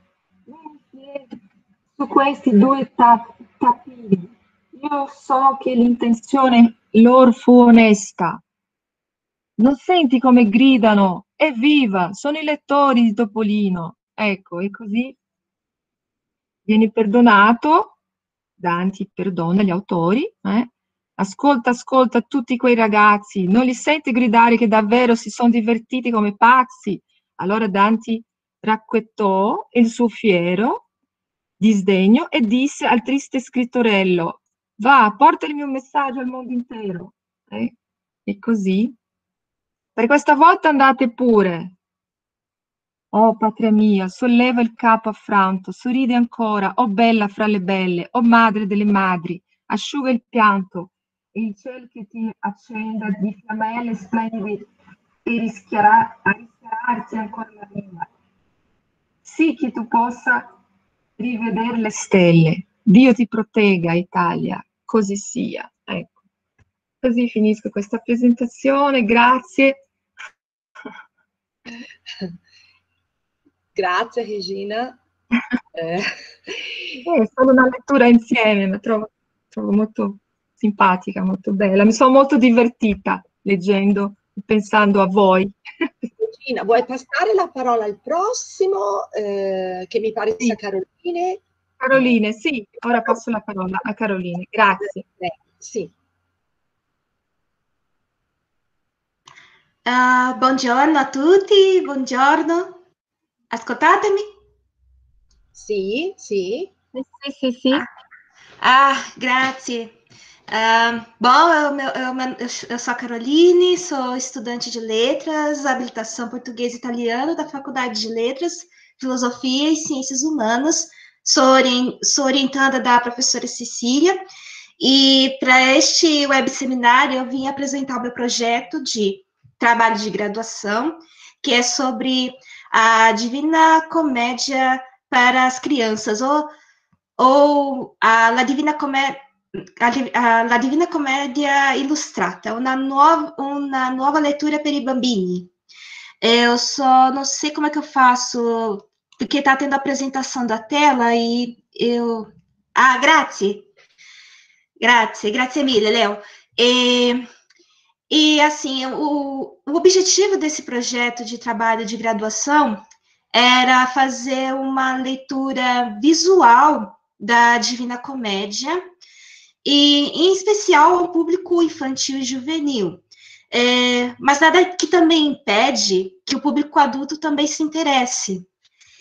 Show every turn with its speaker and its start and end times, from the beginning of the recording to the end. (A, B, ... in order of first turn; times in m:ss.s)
0:00.5-0:01.3 A
0:02.0-0:08.4 A
0:09.6-0:15.2 A
0:16.6-0:17.9 A
0:18.6-0:30.8 A
0:31.6-0:37.7 A
0:38.2-0:38.9 A
0:40.0-0:41.7 A
0:43.1-0:54.7 A
0:55.2-0:58.1 A
0:59.2-1:00.5 A
1:01.2-1:06.2 A
1:07.0-1:09.8 A
1:13.7-1:15.0 B
1:15.7-1:16.9 B
1:17.0-1:25.5 A
1:26.2-1:31.4 B
1:31.8-1:35.0 A
1:35.2-1:35.9 B
1:39.8-1:42.8 C
1:43.5-1:44.3 C
1:45.5-1:46.7 B
1:46.9-1:47.8 A
1:48.6-1:49.9 C
1:50.5-2:04.2 C
2:04.8-2:16.5 C
2:17.2-2:19.2 C
2:19.8-2:25.5 C
2:26.2-2:33.7 C
2:34.8-2:37.2 C
2:38.1-2:42.8 C
2:43.3-2:48.8 C
2:49.6-2:58.4 C